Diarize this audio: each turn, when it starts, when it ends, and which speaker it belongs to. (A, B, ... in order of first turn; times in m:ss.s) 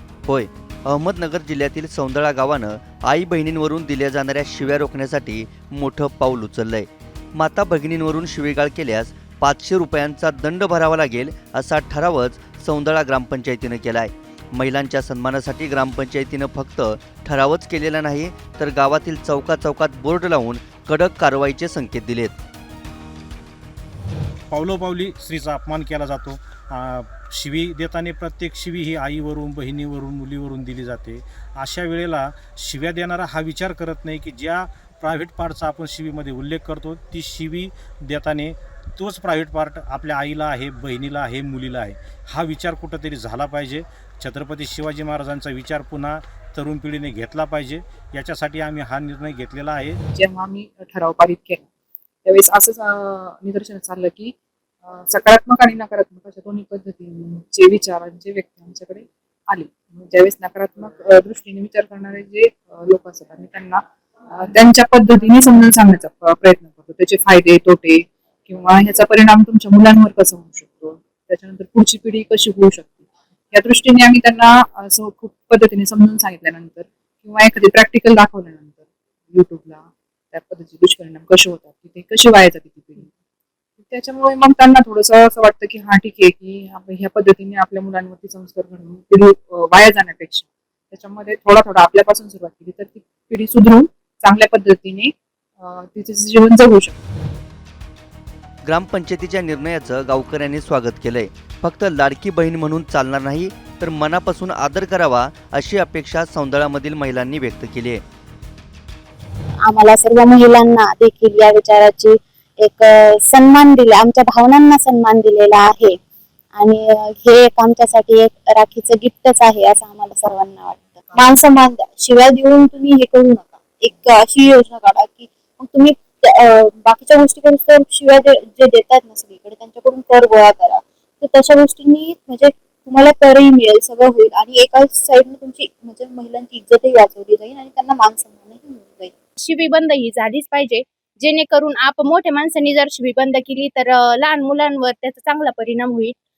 0:00.2-0:22.4 A
0:24.5-0:50.0 B
0:50.1-0:51.6 C
0:52.2-1:23.1 C
1:23.8-1:37.0 C
1:38.6-1:48.0 A
1:49.6-1:56.0 D
1:56.5-2:19.1 D
2:19.4-2:26.1 E